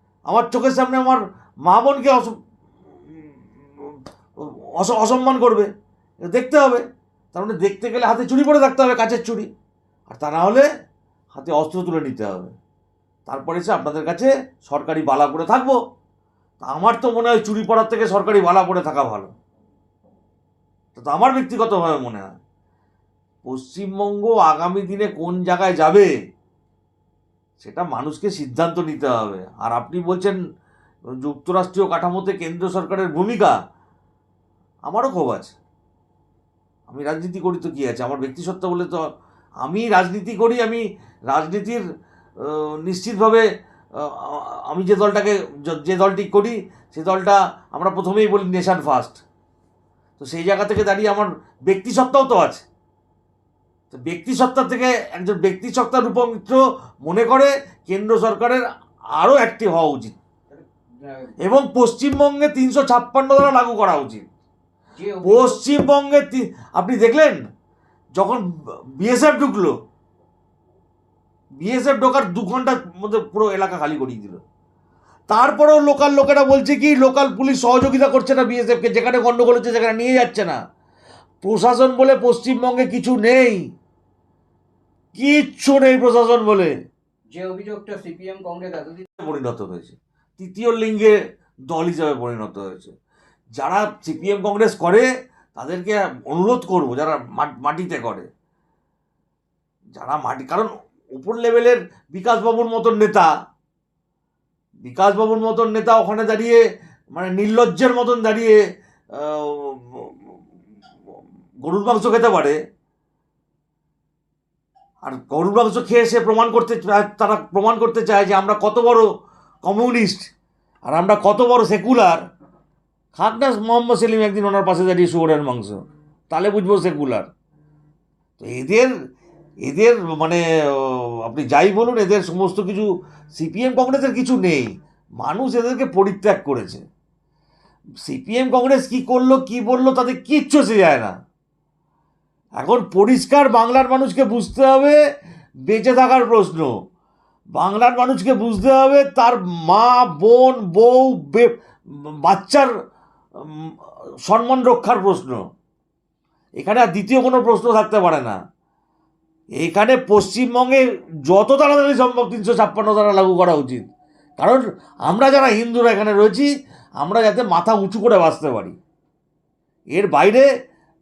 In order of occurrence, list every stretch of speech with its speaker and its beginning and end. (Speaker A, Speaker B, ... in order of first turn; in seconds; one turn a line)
Speaker A: 0.3-2.4
Speaker A: 3.1-5.7
Speaker A: 6.2-9.5
Speaker A: 10.1-10.7
Speaker A: 11.3-12.5
Speaker A: 13.3-15.8
Speaker A: 16.6-19.3
Speaker A: 20.9-22.3
Speaker A: 23.4-26.1
Speaker A: 27.6-30.4
Speaker A: 31.2-33.5
Speaker A: 34.9-35.6
Speaker A: 36.9-39.0
Speaker A: 39.6-41.8
Speaker A: 42.4-43.4
Speaker A: 44.0-49.2
Speaker A: 50.2-52.6
Speaker A: 53.9-58.6
Speaker A: 59.2-60.2
Speaker B: 60.5-61.4
Speaker A: 61.4-64.2
Speaker B: 65.0-65.6
Speaker A: 65.2-67.4
Speaker A: 68.2-68.4
Speaker A: 69.0-69.7
Speaker A: 71.6-74.4
Speaker A: 75.3-80.6
Speaker A: 81.4-83.6
Speaker A: 85.2-86.7
Speaker B: 87.3-89.1
Speaker A: 89.2-91.2
Speaker A: 91.7-92.9
Speaker A: 93.6-98.3
Speaker A: 100.0-103.3
Speaker A: 104.8-106.6
Speaker A: 107.2-108.6
Speaker A: 109.1-110.1
Speaker A: 111.6-112.6
Speaker A: 115.0-119.1
Speaker A: 119.6-120.3
Speaker A: 120.9-122.2
Speaker A: 123.1-127.3
Speaker A: 128.4-128.9
Speaker A: 129.7-136.8
Speaker A: 138.0-141.1
Speaker A: 142.6-145.0
Speaker A: 145.7-146.7
Speaker A: 147.6-152.7
Speaker A: 153.4-155.4
Speaker A: 156.6-158.4
Speaker A: 159.6-163.8
Speaker A: 164.4-166.5
Speaker A: 167.0-168.8
Speaker A: 169.9-170.5